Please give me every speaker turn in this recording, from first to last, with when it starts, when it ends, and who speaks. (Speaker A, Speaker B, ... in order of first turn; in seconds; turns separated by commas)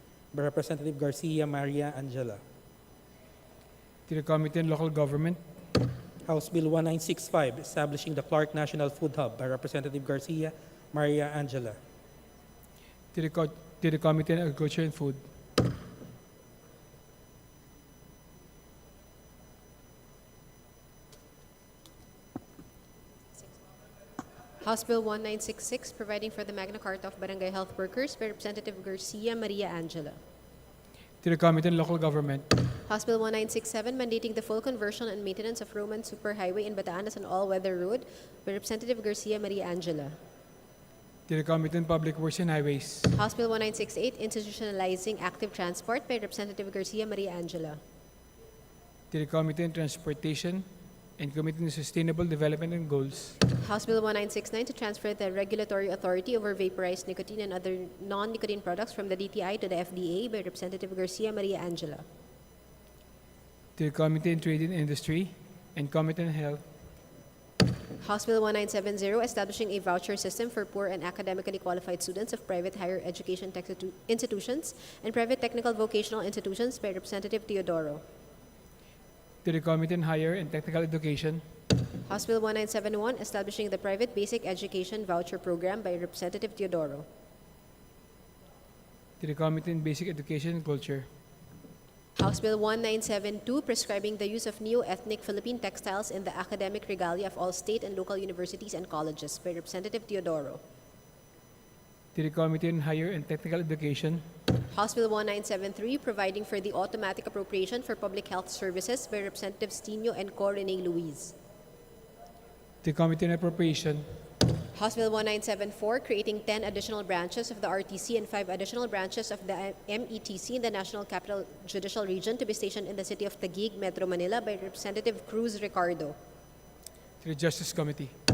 Speaker A: 0.3-2.4, Speaker B: 4.1-5.4, Speaker A: 6.3-11.8, Speaker B: 13.1-15.2, Speaker C: 24.6-30.2, Speaker B: 31.2-32.5, Speaker C: 32.9-40.1, Speaker B: 41.3-43.1, Speaker C: 43.1-47.8, Speaker B: 49.1-50.6, Speaker B: 51.2-53.4, Speaker C: 53.6-62.0, Speaker B: 63.8-66.6, Speaker C: 68.0-78.0, Speaker B: 79.4-81.4, Speaker C: 82.0-87.0, Speaker B: 89.2-91.1, Speaker C: 92.2-100.6, Speaker B: 102.1-104.2, Speaker C: 104.7-111.3, Speaker B: 112.8-114.1, Speaker C: 114.7-126.2, Speaker B: 127.2-128.1